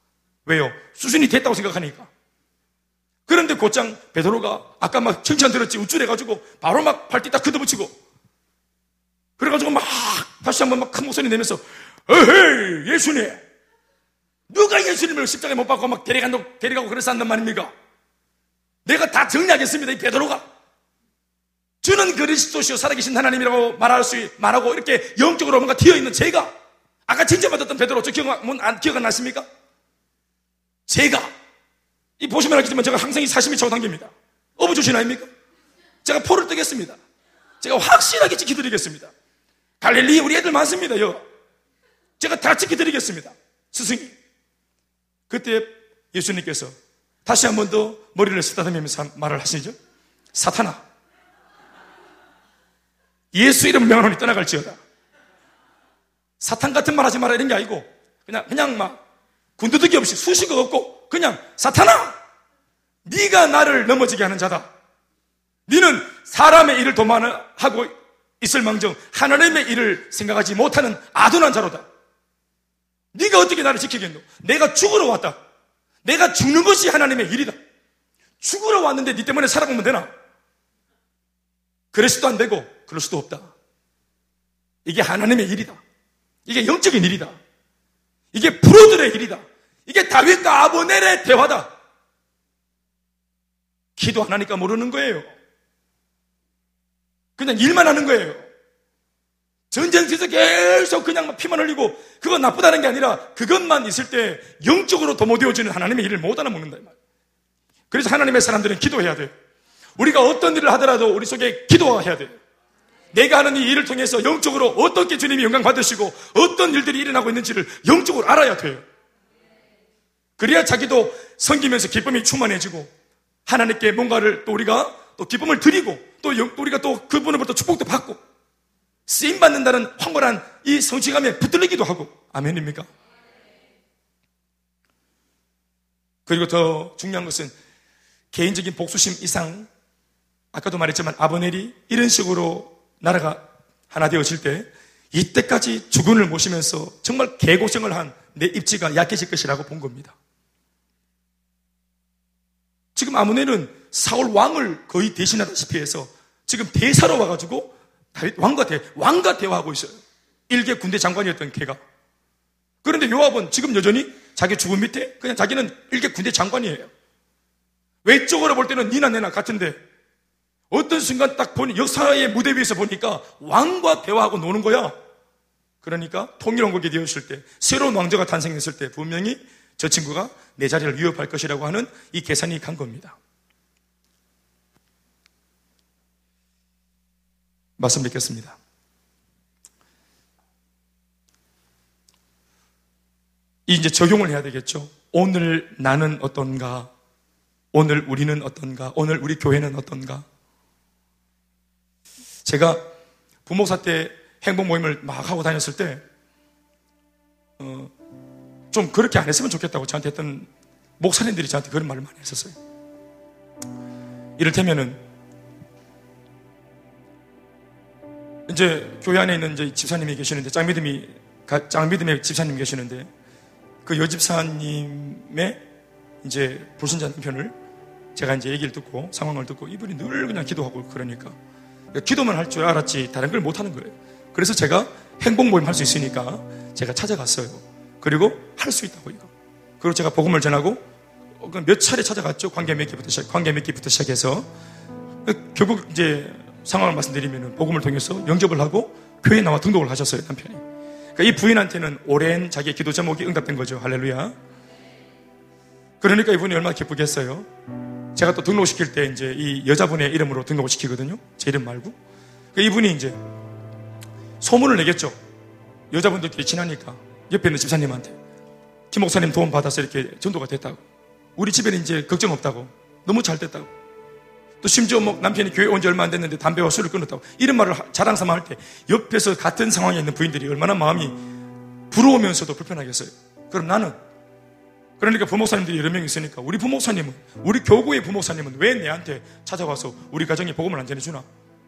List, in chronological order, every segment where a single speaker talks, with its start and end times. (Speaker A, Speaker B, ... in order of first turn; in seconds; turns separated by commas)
Speaker A: 0.5-2.1, Speaker A: 3.3-8.0, Speaker A: 9.4-13.4, Speaker A: 14.5-17.7, Speaker A: 18.9-20.5, Speaker A: 21.8-26.5, Speaker A: 27.1-29.5, Speaker A: 30.9-31.3, Speaker A: 32.2-35.3, Speaker A: 36.0-37.0, Speaker A: 37.6-39.1, Speaker A: 39.8-41.2, Speaker A: 42.2-44.1, Speaker A: 45.3-49.8, Speaker A: 50.3-50.8, Speaker A: 53.3-54.8, Speaker A: 56.4-59.0, Speaker A: 59.6-62.2, Speaker A: 63.0-64.7, Speaker A: 65.7-71.9, Speaker A: 73.1-75.4, Speaker A: 76.0-77.6, Speaker A: 78.4-80.1, Speaker A: 81.9-83.5, Speaker A: 84.9-85.8, Speaker A: 86.5-87.4, Speaker A: 88.3-91.7, Speaker A: 94.0-95.3, Speaker A: 97.4-98.5, Speaker A: 99.7-107.0, Speaker A: 107.9-109.3, Speaker A: 110.0-112.4, Speaker A: 113.1-118.8, Speaker A: 120.4-122.9, Speaker A: 123.5-128.2, Speaker A: 129.1-132.9, Speaker A: 136.3-137.5, Speaker A: 138.3-139.7, Speaker A: 140.5-150.2, Speaker A: 152.9-161.8, Speaker A: 162.8-166.9, Speaker A: 168.1-169.8, Speaker A: 170.7-175.0, Speaker A: 175.8-183.2, Speaker A: 187.8-188.6, Speaker A: 193.7-196.9, Speaker A: 197.7-200.2, Speaker A: 202.4-202.8, Speaker A: 203.5-206.0, Speaker A: 207.6-207.9, Speaker A: 208.7-212.6, Speaker A: 214.4-215.0, Speaker A: 218.5-223.1, Speaker A: 223.8-225.6, Speaker A: 226.2-227.5, Speaker A: 228.2-231.4, Speaker A: 231.9-239.3, Speaker A: 239.8-240.8, Speaker A: 241.4-244.5, Speaker A: 245.2-250.6, Speaker A: 251.2-254.3, Speaker A: 256.0-257.5, Speaker A: 258.1-262.0, Speaker A: 262.6-263.2, Speaker A: 264.4-265.2, Speaker A: 265.9-268.2, Speaker A: 268.9-270.8, Speaker A: 271.4-273.7, Speaker A: 274.6-281.2, Speaker A: 281.9-283.9, Speaker A: 285.0-291.3